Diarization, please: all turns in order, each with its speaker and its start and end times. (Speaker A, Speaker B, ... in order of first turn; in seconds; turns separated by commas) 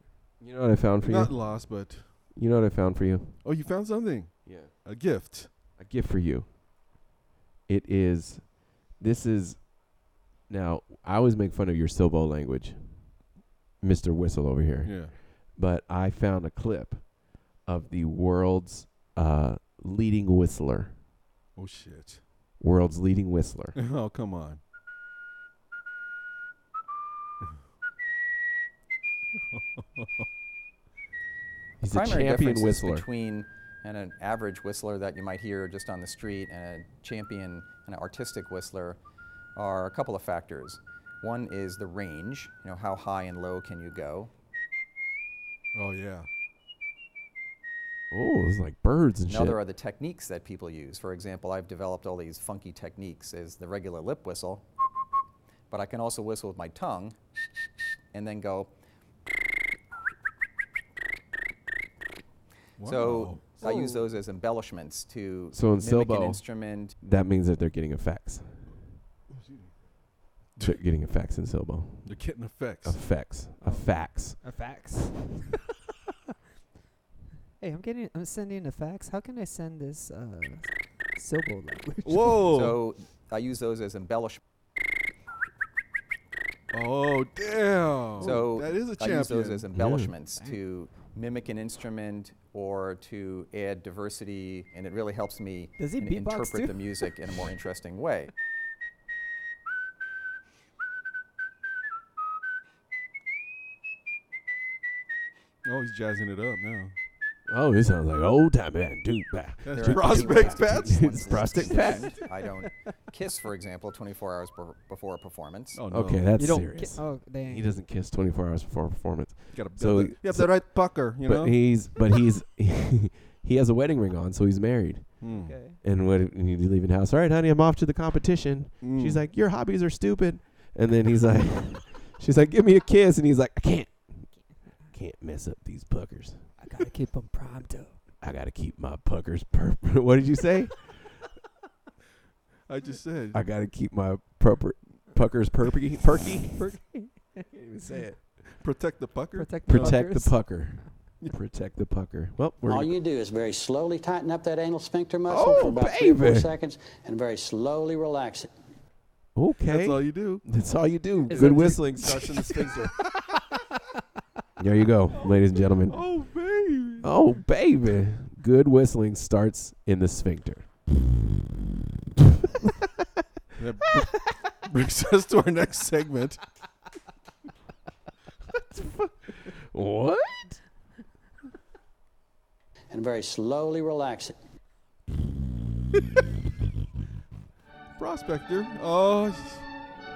Speaker A: 0.4-1.4, Speaker B: 1.0-2.3, Speaker A: 2.3-3.4, Speaker B: 3.4-5.7, Speaker A: 4.4-4.8, Speaker A: 5.8-6.5, Speaker A: 7.7-13.2, Speaker A: 13.8-21.0, Speaker B: 14.8-15.2, Speaker B: 21.5-22.2, Speaker A: 22.6-23.8, Speaker B: 23.8-24.6, Speaker B: 29.5-30.3, Speaker A: 31.8-33.1, Speaker C: 31.9-39.0, Speaker C: 39.5-44.3, Speaker B: 45.7-46.3, Speaker A: 48.1-49.6, Speaker C: 49.3-54.6, Speaker C: 55.7-57.2, Speaker C: 58.1-58.7, Speaker B: 62.8-63.8, Speaker C: 62.8-67.0, Speaker D: 63.6-64.1, Speaker A: 65.5-66.4, Speaker A: 67.0-68.8, Speaker B: 69.3-69.8, Speaker A: 70.6-72.3, Speaker B: 72.0-73.3, Speaker A: 72.8-74.4, Speaker D: 73.6-75.5, Speaker D: 77.6-82.4, Speaker B: 82.0-82.8, Speaker C: 82.5-84.4, Speaker B: 86.7-89.7, Speaker D: 88.2-88.5, Speaker C: 88.2-98.3, Speaker A: 89.7-90.1, Speaker D: 90.3-90.6, Speaker D: 95.8-97.1, Speaker B: 105.6-107.0, Speaker A: 107.5-112.2, Speaker B: 109.6-111.9, Speaker C: 109.7-115.8, Speaker D: 111.5-112.2, Speaker B: 115.8-116.3, Speaker A: 115.9-134.3, Speaker D: 116.4-117.8, Speaker B: 119.5-121.8, Speaker B: 125.2-125.6, Speaker D: 125.3-125.8, Speaker B: 128.8-129.3, Speaker D: 134.3-134.9, Speaker A: 134.9-136.5, Speaker D: 136.6-138.0, Speaker A: 138.2-141.1, Speaker B: 142.7-143.4, Speaker A: 143.3-146.8, Speaker D: 146.6-148.0, Speaker A: 147.5-148.3, Speaker B: 148.6-150.2, Speaker D: 149.3-151.0, Speaker A: 149.7-153.0, Speaker E: 152.7-158.5, Speaker A: 155.3-156.5, Speaker A: 159.3-162.9, Speaker B: 159.7-163.1, Speaker D: 161.3-162.0, Speaker A: 164.6-166.1, Speaker B: 165.9-167.1, Speaker A: 167.0-170.7, Speaker B: 173.6-176.4, Speaker A: 178.7-180.6, Speaker E: 182.9-184.3, Speaker B: 188.0-189.7